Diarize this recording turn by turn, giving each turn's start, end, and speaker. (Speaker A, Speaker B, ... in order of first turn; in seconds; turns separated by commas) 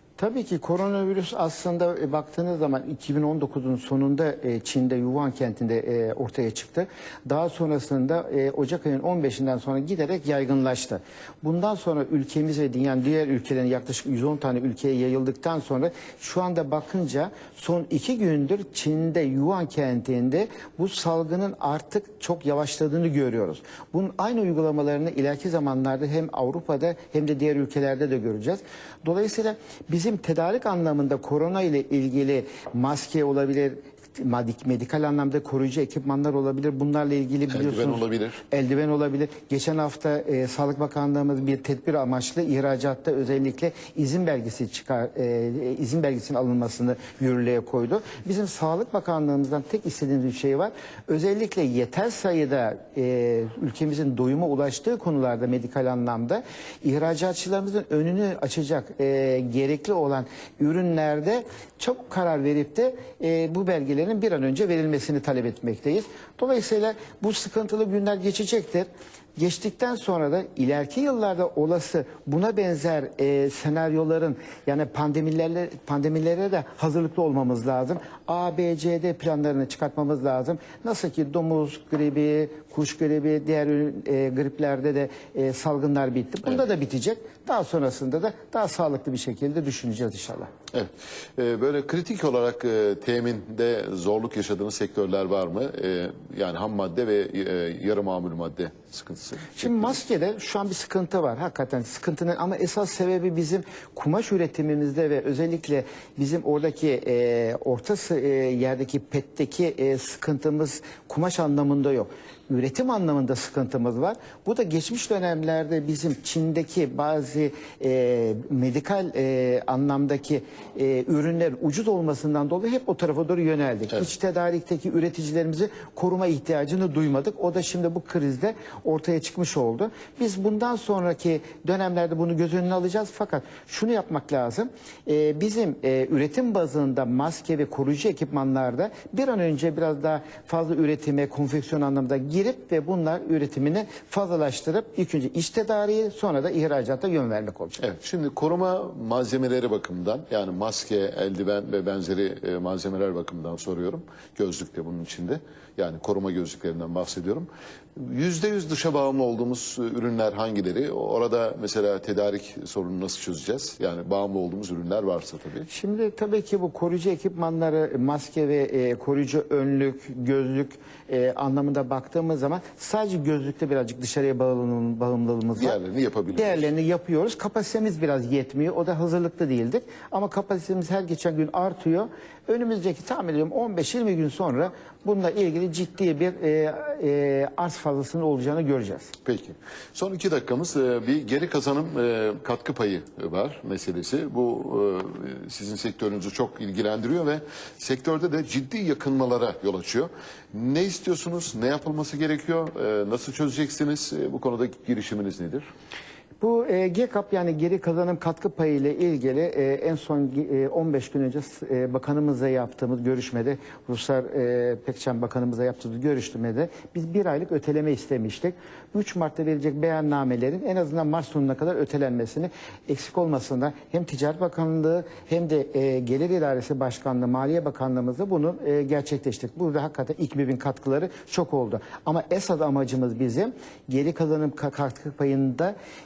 Speaker A: 0.2-90.5, Speaker B: 37.5-38.4, Speaker B: 90.7-100.0, Speaker A: 99.5-147.8, Speaker B: 147.8-165.7, Speaker A: 165.7-175.8, Speaker B: 175.6-176.6, Speaker A: 176.3-189.1, Speaker B: 189.2-205.7, Speaker A: 206.4-235.7